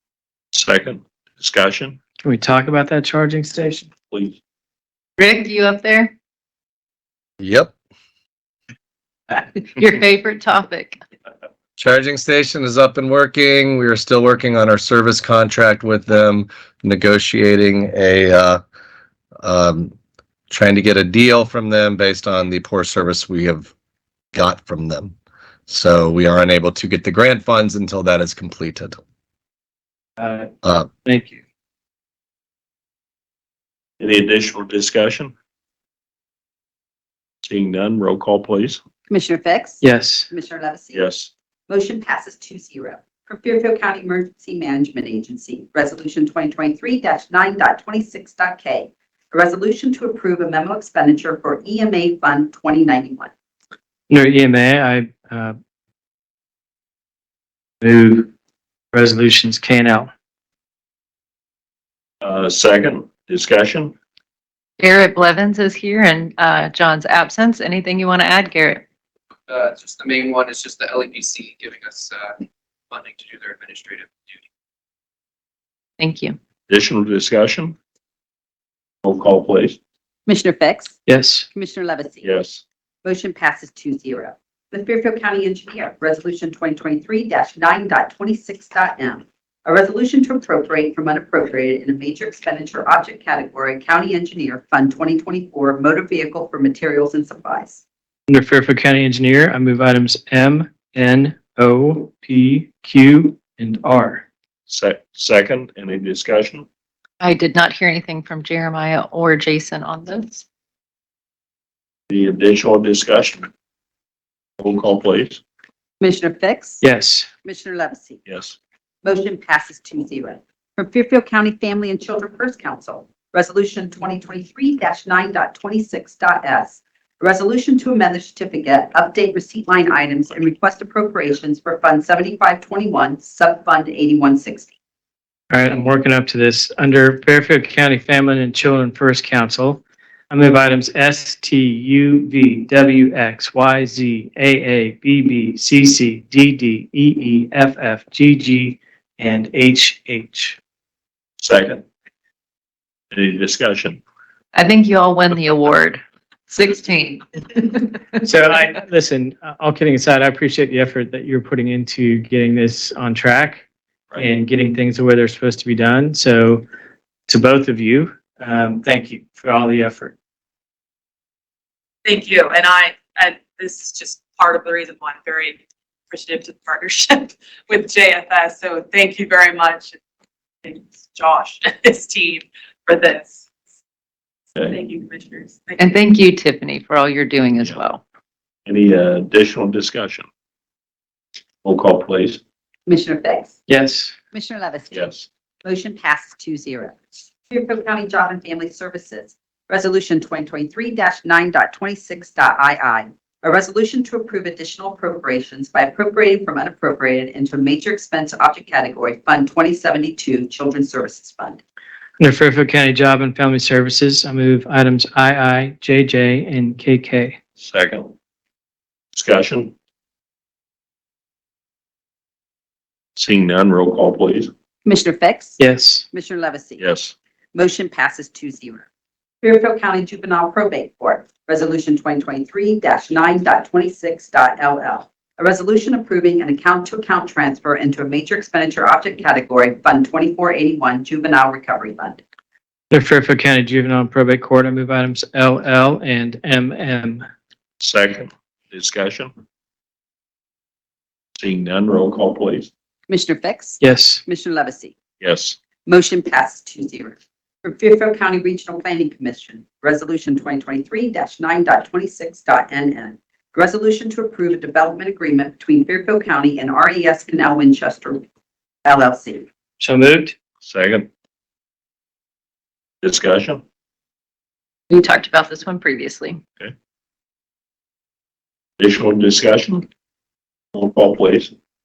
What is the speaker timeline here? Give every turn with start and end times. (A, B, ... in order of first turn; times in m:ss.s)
0:00.5-0:02.0 A
0:02.2-0:03.9 B
0:04.1-0:04.4 A
0:05.2-0:06.1 C
0:07.4-0:07.7 D
0:09.3-0:11.0 C
0:11.8-0:18.6 D
0:19.4-0:19.9 D
0:20.5-0:23.7 D
0:24.3-0:25.2 D
0:25.7-0:29.0 D
0:30.2-0:30.5 B
0:31.0-0:31.4 B
0:34.0-0:35.4 A
0:37.4-0:38.8 A
0:39.1-0:41.1 E
0:39.8-0:40.3 B
0:40.9-0:41.3 A
0:41.7-0:53.3 E
0:54.1-0:55.6 B
0:57.8-0:58.3 B
0:58.9-1:00.1 B
1:02.2-1:04.0 A
1:04.8-1:08.8 C
1:09.5-1:14.4 F
1:16.0-1:16.4 C
1:16.7-1:17.8 A
1:19.0-1:19.8 A
1:20.3-1:21.0 E
1:21.1-1:21.5 B
1:21.5-1:22.3 E
1:22.2-1:22.6 A
1:23.0-1:37.8 E
1:38.3-1:44.3 B
1:44.7-1:46.7 A
1:47.2-1:50.4 C
1:52.1-1:53.5 A
1:54.6-1:55.4 A
1:56.0-1:56.8 E
1:56.8-1:57.3 B
1:57.4-1:58.2 E
1:58.3-1:58.6 A
1:59.0-2:14.7 E
2:15.5-2:30.6 B
2:31.4-2:31.8 A
2:33.1-2:34.0 A
2:34.5-2:38.2 C
2:38.2-2:43.6 B
2:44.2-2:46.6 B
2:47.3-2:50.1 B
2:52.0-2:55.6 G
2:56.1-3:00.0 G
3:00.6-3:03.5 G
3:04.6-3:06.0 G
3:05.8-3:08.0 C
3:08.6-3:10.3 A
3:11.6-3:12.4 A
3:12.9-3:13.6 E
3:13.7-3:14.2 B
3:14.3-3:15.1 E
3:14.9-3:15.3 A
3:15.6-3:31.6 E
3:32.2-3:37.4 B
3:37.6-3:38.2 A
3:39.1-3:39.8 A
3:43.2-3:44.5 A
3:44.8-3:45.6 E
3:45.6-3:46.1 B
3:46.1-3:46.8 E
3:46.8-3:47.2 A
3:47.6-3:48.8 E
3:49.4-4:02.2 E
4:02.9-4:07.3 B
4:07.8-4:09.3 A
4:11.4-4:12.7 A
4:13.1-4:15.0 E
4:13.8-4:14.2 B
4:15.2-4:15.6 A
4:15.8-4:28.2 E
4:28.8-4:29.5 E
4:29.8-4:30.4 B
4:30.6-4:31.1 A
4:33.0-4:33.6 A
4:34.9-4:36.4 C
4:38.8-4:39.9 A
4:40.7-4:41.6 A